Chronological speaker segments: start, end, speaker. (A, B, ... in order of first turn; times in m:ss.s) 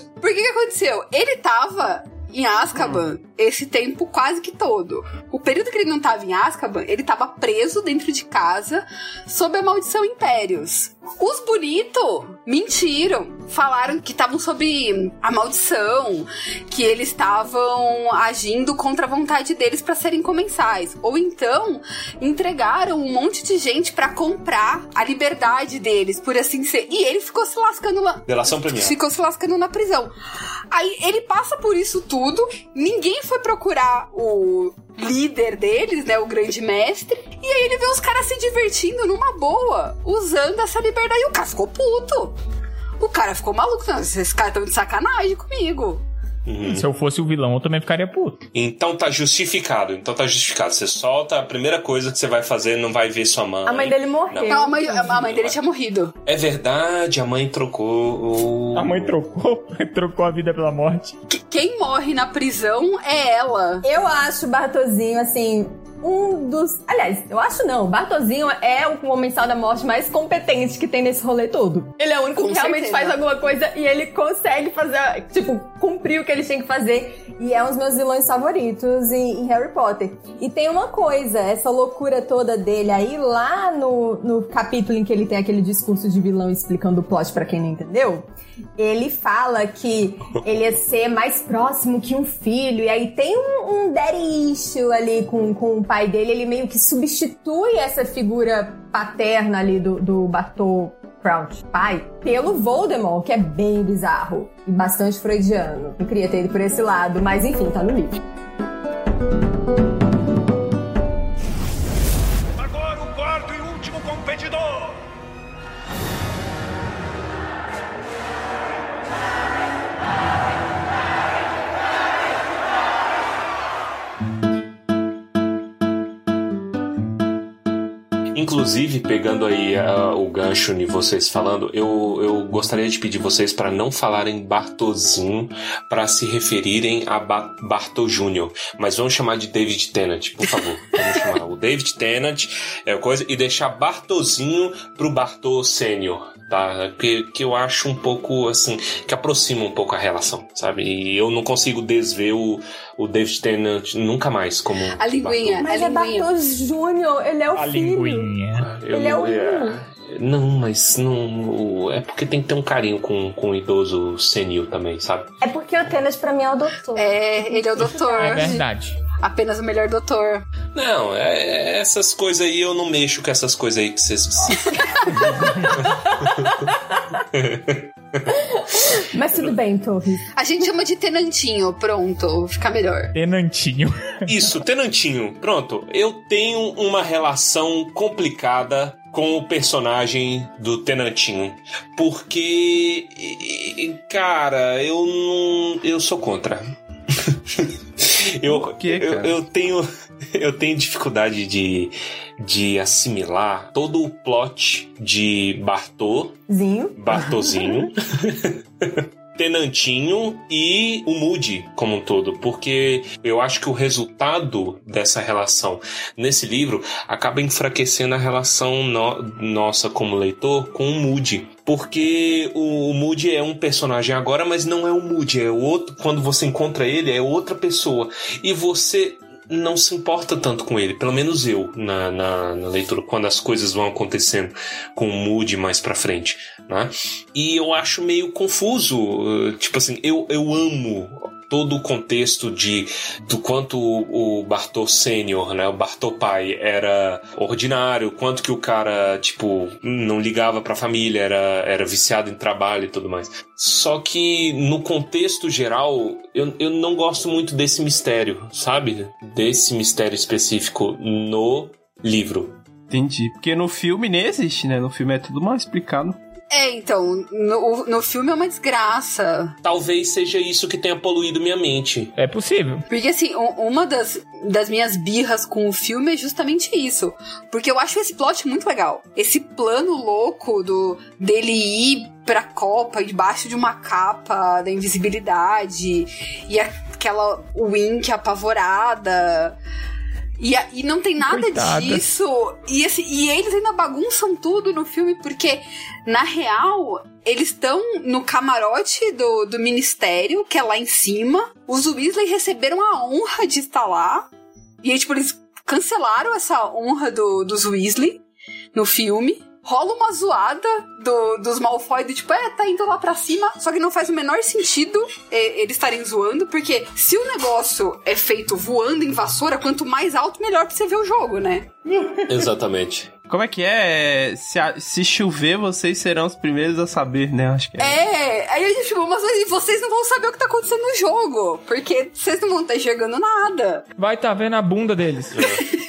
0:00.2-0:30.1 A
0:02.8-0:03.0 B
0:28.3-0:29.0 B
0:30.7-0:42.4 A
0:43.0-0:46.0 A
0:46.4-0:46.8 B
0:46.6-0:48.4 C
0:48.5-0:55.6 B
0:53.6-0:54.8 D
0:54.5-0:56.1 A
0:56.2-0:59.1 B
0:58.7-1:01.2 C
1:01.3-1:03.8 A
1:03.8-1:28.2 D
1:12.4-1:13.2 A
1:28.8-1:48.2 D
2:08.4-2:35.7 B
2:35.0-2:36.3 A
2:35.6-2:38.3 D
2:37.5-2:38.7 C
2:38.6-2:45.3 B
2:38.9-2:39.8 D
2:45.4-2:48.6 D
2:47.0-2:48.6 A
2:48.2-2:49.0 C
2:49.2-2:50.4 A
2:50.7-2:59.0 B
2:58.3-3:00.3 D
3:00.3-3:03.1 A
3:03.1-3:04.5 C
3:04.2-3:26.4 B
3:18.4-3:19.4 E
3:26.5-3:27.0 D
3:27.0-4:22.6 B
4:22.9-4:26.2 E
4:26.5-4:29.5 A
4:29.6-4:32.1 B
4:32.2-4:32.8 C
4:32.9-4:49.6 A
4:50.4-5:04.3 A
4:51.2-4:52.1 C
5:04.8-5:08.2 A
5:08.7-5:21.7 A
5:22.2-5:23.1 B
5:23.3-5:28.0 E
5:27.8-5:33.8 A
5:34.0-5:35.4 C
5:35.3-5:35.6 B